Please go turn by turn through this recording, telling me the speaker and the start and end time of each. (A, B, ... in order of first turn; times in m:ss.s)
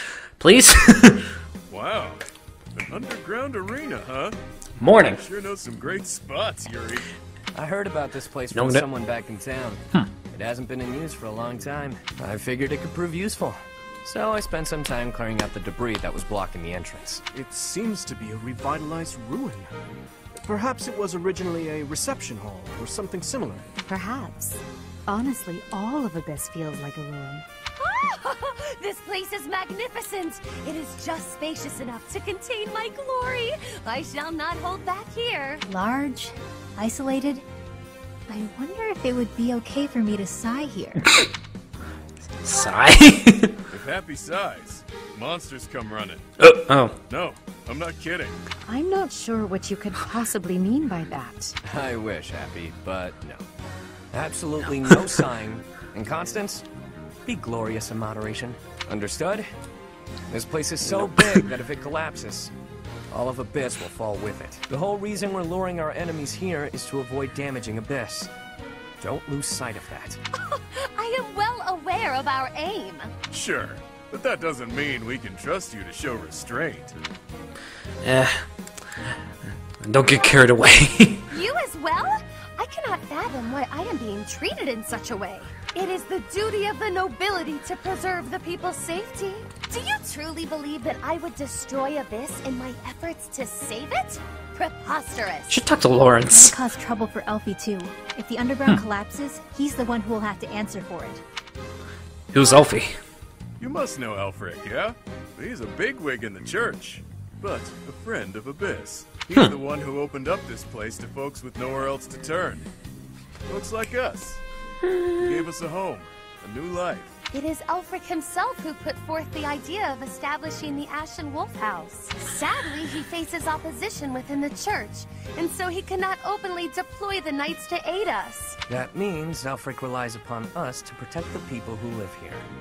0:00.4-0:01.3 A
0:01.7-0:02.2 B
0:02.8-0:04.4 B
0:04.8-0:05.2 A
0:05.0-0:07.1 B
0:07.5-0:17.2 C
0:08.5-0:08.9 A
0:17.3-0:19.7 D
0:20.4-0:23.7 D
0:23.8-0:27.5 E
0:27.8-0:35.6 F
0:35.6-0:37.4 G
0:38.3-0:41.1 G
0:42.4-0:43.6 A
0:43.7-0:46.2 B
0:46.4-0:47.0 A
0:47.1-0:48.4 B
0:48.7-0:51.6 E
0:51.6-0:53.4 C
0:54.1-0:56.7 C
0:57.2-0:59.5 C
1:00.3-1:02.5 C
1:00.8-1:01.4 A
1:03.1-1:08.3 C
1:09.0-1:10.2 C
1:10.4-1:13.1 F
1:13.3-1:17.0 B
1:18.0-1:18.4 A
1:19.8-1:21.3 A
1:21.3-1:35.6 F
1:35.5-1:36.6 A
1:36.3-1:41.2 G
1:42.3-1:43.0 A
1:43.6-1:52.7 B
1:53.5-1:54.4 B
1:54.8-1:55.5 A
1:55.2-1:57.2 B
1:57.3-2:08.6 F
2:01.8-2:02.1 G
2:08.7-2:12.4 C